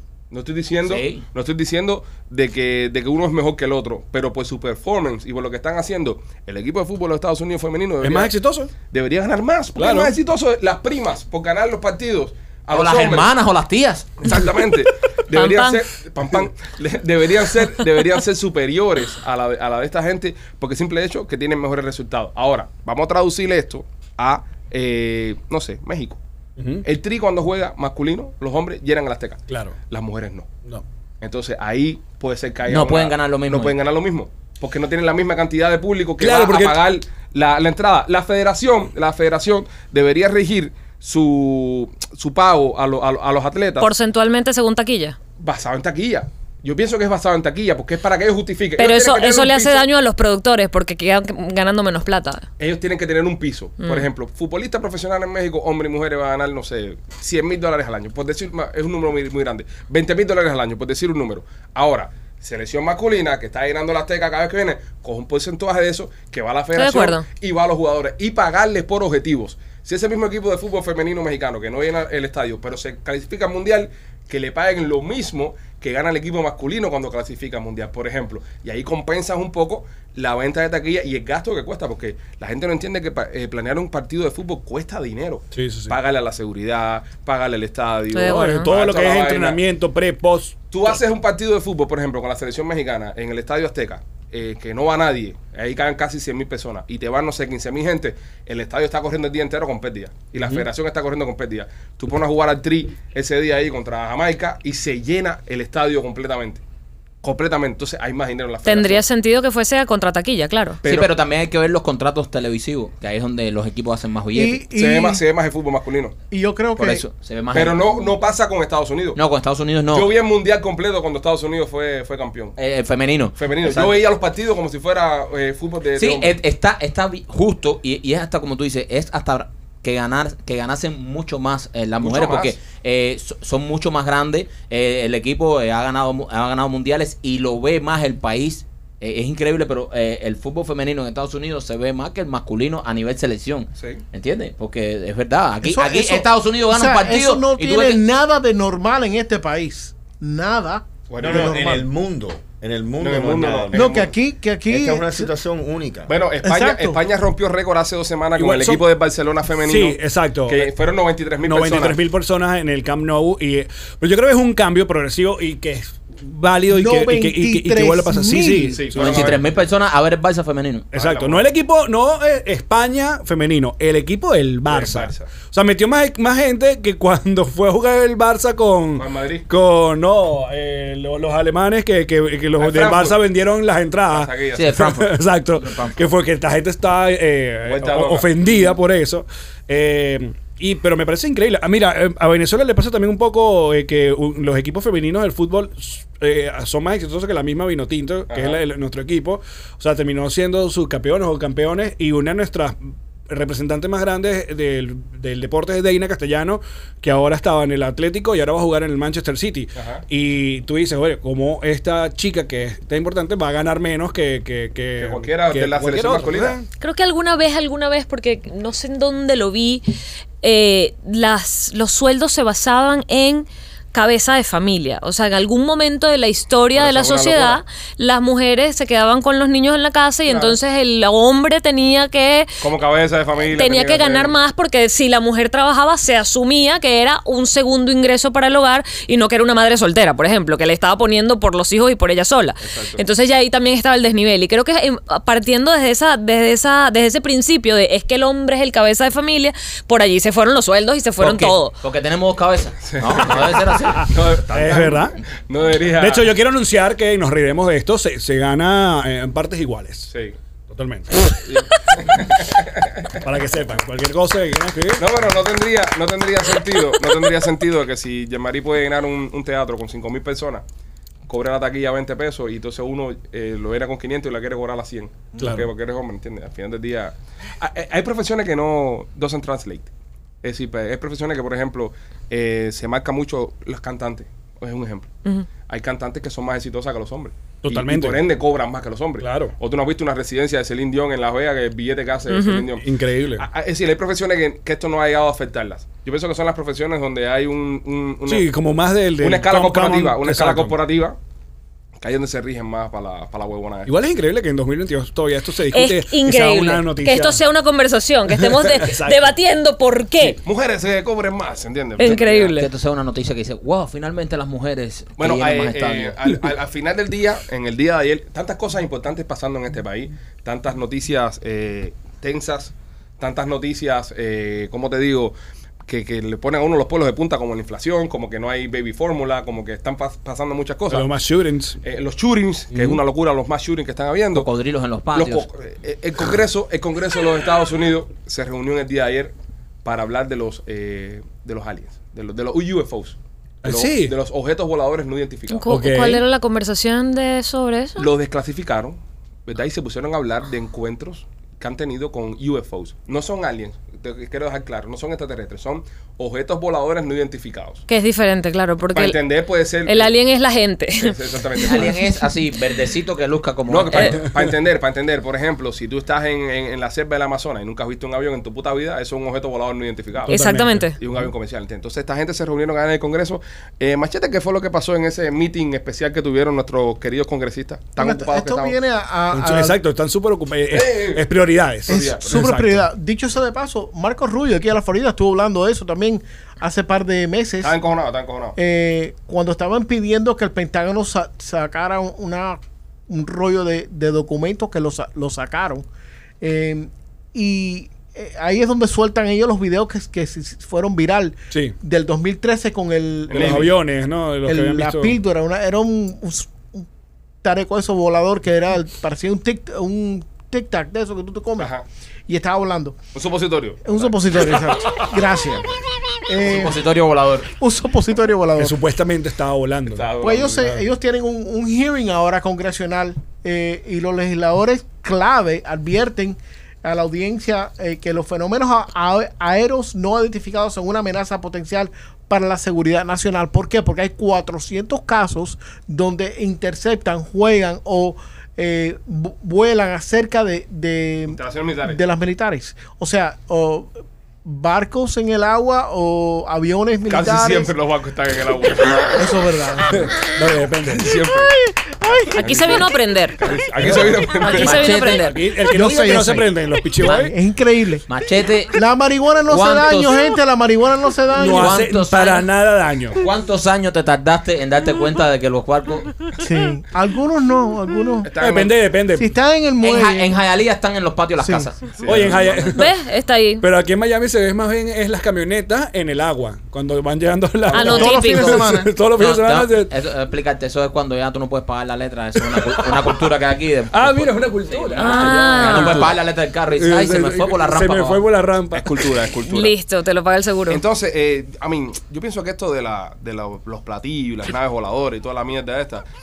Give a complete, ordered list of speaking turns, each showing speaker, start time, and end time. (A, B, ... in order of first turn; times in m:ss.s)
0:00.3-0:08.3 A
0:00.8-0:01.2 B
0:08.0-0:08.7 C
0:08.9-0:13.3 A
0:09.8-0:10.2 C
0:12.7-0:14.1 B
0:14.2-0:26.2 A
0:15.3-0:15.8 D
0:26.6-0:26.8 C
0:26.8-0:30.5 A
0:29.5-0:29.8 C
0:31.2-0:43.9 A
0:32.7-0:33.7 B
0:36.2-0:36.8 C
0:43.8-0:45.2 D
0:45.4-0:49.9 A
0:48.8-0:52.5 D
0:52.6-1:29.6 A
0:53.8-0:54.1 D
1:06.8-1:07.2 D
1:25.6-1:26.0 C
1:28.1-1:28.7 D
1:28.3-1:31.0 C
1:30.7-1:46.6 A
1:40.4-1:40.7 C
1:47.2-1:49.0 A
1:48.6-1:50.8 D
1:50.8-1:51.1 A
1:50.8-1:54.6 B
1:54.3-1:55.2 E
1:54.8-1:56.2 A
1:56.3-1:57.0 E
1:56.8-1:57.8 B
1:57.5-1:59.2 A
1:59.2-2:00.1 B
1:59.9-2:02.6 A
2:02.6-2:04.0 B
2:03.4-2:06.4 A
2:06.0-2:28.0 B
2:12.0-2:12.6 A
2:23.8-2:24.0 A
2:25.6-2:31.9 E
2:31.1-2:31.6 A
2:31.2-2:34.1 F
2:33.0-2:34.1 A
2:33.7-2:35.3 E
2:34.7-2:36.1 F
2:36.1-2:42.0 A
2:36.4-2:37.0 E
2:38.4-2:38.8 C
2:39.6-2:40.7 C
2:41.4-2:49.4 C
2:46.7-2:48.8 E
2:48.7-2:49.4 A
2:49.0-2:50.9 B
2:50.9-3:22.8 C
2:50.9-2:51.4 A
2:54.7-2:55.3 A
2:59.0-2:59.5 A
3:02.6-3:03.2 A
3:04.1-3:04.8 A
3:04.6-3:06.0 B
3:07.6-3:08.4 A
3:18.3-3:18.6 A
3:23.3-3:36.7 C
3:29.8-3:30.0 A
3:35.0-3:36.6 A
3:36.8-3:39.8 D
3:40.4-3:52.5 D
3:46.8-3:47.6 A
3:50.3-3:50.6 A
3:52.6-3:54.3 A
3:53.5-4:11.8 D
4:02.6-4:03.0 A
4:11.2-4:14.1 B
4:12.9-4:16.3 A
4:14.5-4:15.2 C
4:16.0-4:20.1 C
4:20.1-4:20.4 A
4:20.7-4:21.3 C
4:21.4-4:23.2 A
4:23.2-4:25.1 C
4:25.0-4:30.6 A
4:31.3-4:39.9 A
4:35.4-4:35.7 C
4:40.4-4:45.1 A
4:45.7-4:52.9 A
4:47.6-4:48.2 C
4:49.2-4:49.5 C
4:52.3-4:52.7 D
4:52.8-4:53.5 C
4:53.4-4:58.5 A
4:58.3-5:00.8 C
4:59.2-5:01.2 A
5:02.0-5:03.9 A
5:03.9-5:07.4 C
5:05.7-5:10.4 D
5:08.3-5:09.4 C
5:10.4-5:12.6 A
5:12.0-5:12.7 D
5:12.0-5:16.2 B
5:15.2-5:25.3 A
5:25.9-5:31.1 A
5:30.9-5:31.8 C
5:31.8-5:34.5 A
5:32.7-5:33.0 C
5:34.3-5:35.5 B
5:35.1-5:39.3 A
5:39.8-5:45.7 A
5:43.6-5:44.2 C
5:45.5-5:48.1 D
5:45.7-5:46.2 C
5:48.0-5:57.8 A
5:57.9-5:59.2 D
5:58.9-6:00.1 A
5:59.9-6:02.0 D
6:01.0-6:02.0 A
6:01.7-6:04.2 B
6:03.7-6:10.3 A
6:03.9-6:04.2 D
6:10.3-6:10.9 C
6:10.3-6:11.0 D
6:11.0-6:18.8 A
6:18.0-6:19.8 E
6:19.3-6:22.9 C
6:20.7-6:21.2 A
6:21.9-6:22.3 A
6:21.9-6:27.8 E
6:27.6-6:28.6 A
6:28.6-6:35.9 E
6:36.4-6:43.7 E
6:41.5-6:41.8 C
6:43.3-6:43.7 A
6:43.3-6:45.2 C
6:44.5-6:46.8 E
6:47.4-6:51.7 E
6:51.6-6:51.8 A
6:52.3-6:53.0 E
6:53.2-6:54.4 A
6:53.8-6:55.7 E
6:56.3-6:56.9 E
6:56.4-6:57.5 B
6:57.6-6:58.8 E
6:58.6-7:00.1 C
6:59.9-7:00.8 A
7:00.2-7:23.9 E
7:21.3-7:22.0 A
7:24.4-7:27.7 E
7:27.1-7:29.2 A
7:29.2-7:30.1 E
7:29.9-7:31.1 C
7:30.9-7:31.5 A
7:31.3-7:32.4 E
7:32.4-7:33.4 D
7:32.4-7:34.9 A
7:33.8-7:34.3 C
7:34.4-7:35.4 D
7:34.5-7:35.2 B
7:35.1-7:37.3 C
7:35.7-7:38.1 E
7:37.0-7:37.3 D
7:38.1-7:38.8 B
7:38.7-7:41.8 E
7:39.5-7:40.2 B
7:41.3-7:43.2 C
7:41.5-7:42.5 B
7:43.2-7:46.1 B
7:46.4-7:48.3 E
7:48.2-7:48.8 A
7:48.4-7:49.3 C
7:49.2-7:50.4 E
7:49.8-7:52.7 B
7:51.4-7:51.7 E
7:52.0-7:52.4 A
7:52.0-7:52.9 C
7:52.7-7:53.6 D
7:53.6-7:59.9 C
7:57.7-7:58.7 D
7:57.7-7:58.9 E
7:59.2-8:08.2 B
8:02.4-8:03.2 C
8:03.9-8:09.2 C
8:05.0-8:06.1 D
8:08.7-8:09.8 A
8:09.4-8:10.8 D
8:10.7-8:16.1 A